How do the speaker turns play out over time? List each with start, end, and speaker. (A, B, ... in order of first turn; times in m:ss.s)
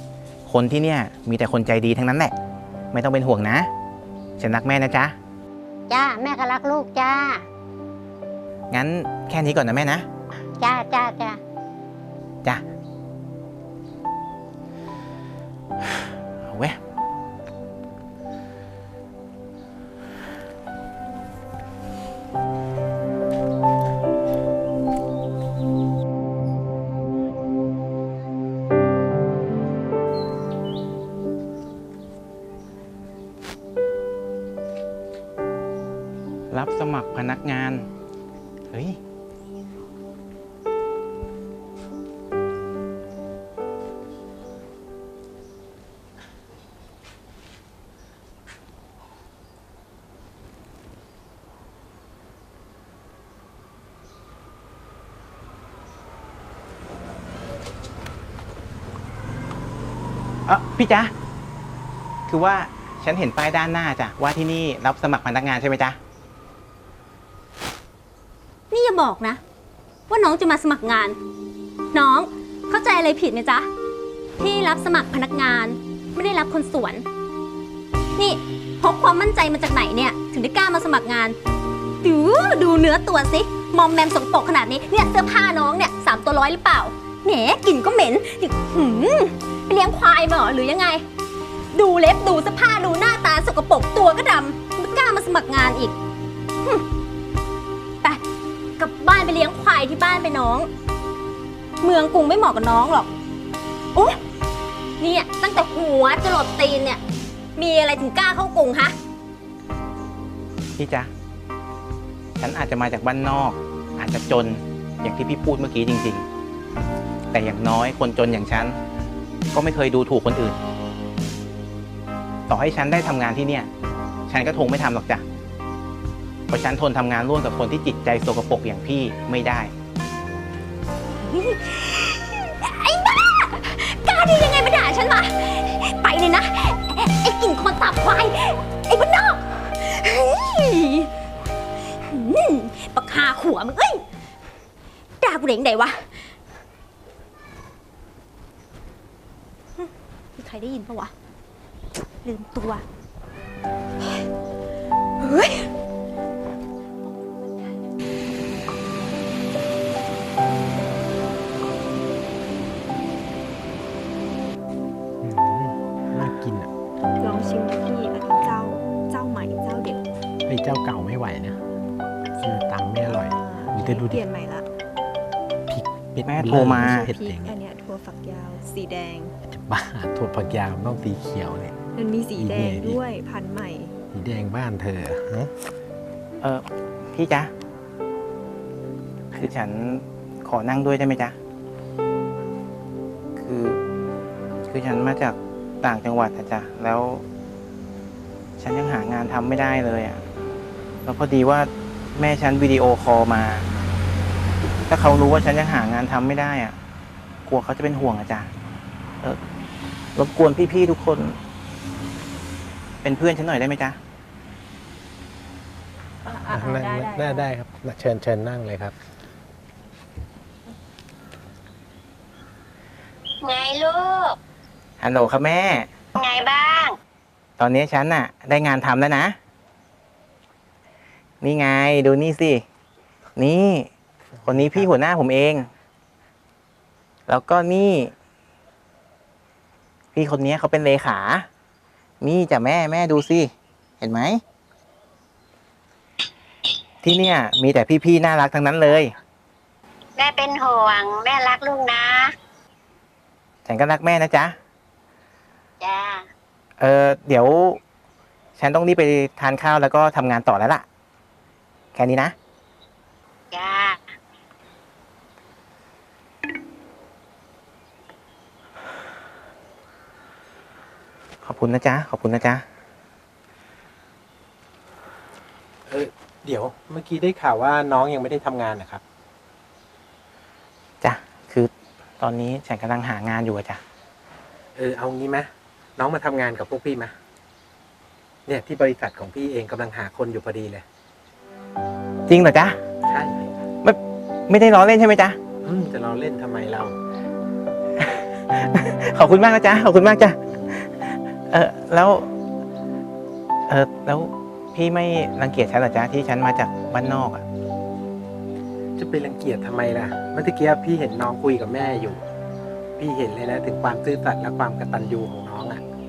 0:00.4-0:02.3 A
0:02.9-0:03.7 A
0:04.4-0:05.1 A
0:05.9-0:07.4 B
0:08.7-0:10.0 A
0:10.6-0:11.4 B
0:16.4-0:16.8 A
0:36.5-0:37.9 A
0:38.7-0:39.0 A
1:00.4-1:01.1 A
1:02.3-1:06.0 A
1:08.7-1:09.4 C
1:10.1-1:11.2 C
1:11.9-1:13.7 C
1:14.4-1:17.0 C
1:18.2-1:21.4 C
1:22.0-1:31.0 C
1:31.7-1:35.9 C
1:38.8-1:40.7 C
1:41.8-1:43.1 C
1:43.9-1:44.2 C
1:45.0-1:47.0 C
1:47.6-1:48.9 C
1:50.8-1:51.1 A
1:52.4-1:56.2 A
1:57.3-1:58.8 A
1:59.5-2:00.6 A
2:02.5-2:03.7 A
2:04.3-2:05.2 A
2:06.5-2:09.7 A
2:11.2-2:21.1 C
2:21.9-2:24.0 C
2:25.2-2:26.1 C
2:29.8-2:31.1 C
2:32.2-2:32.8 C
2:35.2-2:35.7 C
2:45.2-2:46.7 D
2:47.2-2:50.0 E
2:50.5-2:51.6 D
2:52.4-2:54.2 D
2:52.4-2:54.7 E
2:55.7-2:57.6 D
2:56.3-2:57.1 A
2:56.5-2:59.3 E
2:59.5-3:01.8 D
3:01.9-3:03.9 E
3:02.3-3:03.0 D
3:04.1-3:05.5 D
3:06.4-3:07.5 A
3:09.3-3:11.4 A
3:13.4-3:13.8 A
3:14.7-3:17.2 A
3:18.6-3:20.2 A
3:21.0-3:23.7 A
3:24.9-3:26.8 A
3:27.4-3:28.5 A
3:30.2-3:31.4 A
3:33.0-3:34.0 A
3:36.2-3:37.2 E
3:36.4-3:39.0 D
3:43.4-3:44.4 B
3:45.0-3:45.9 A
3:46.1-3:46.9 B
3:47.6-3:49.4 A
3:51.4-3:52.6 A
3:53.4-3:53.9 A
3:54.4-3:54.9 D
3:54.4-3:55.7 A
3:57.3-3:58.1 A
4:00.1-4:01.5 A
4:02.2-4:03.5 A
4:04.0-4:04.4 A
4:07.0-4:09.1 A
4:10.2-4:12.3 B
4:13.6-4:14.5 A
4:15.8-4:16.2 B
4:16.8-4:17.8 A
4:18.6-4:20.8 A
4:21.9-4:22.3 A
4:23.5-4:24.0 B
4:31.4-4:32.6 A
4:35.9-4:39.0 D
4:41.0-4:43.8 A
4:44.8-4:47.1 D
4:48.5-4:50.8 D
4:52.3-4:52.8 A
4:53.0-4:53.5 D
4:53.8-4:55.4 A
4:55.6-4:56.9 D
4:58.0-5:02.3 A
5:03.7-5:07.4 A
5:09.0-5:12.2 D
5:13.0-5:15.8 D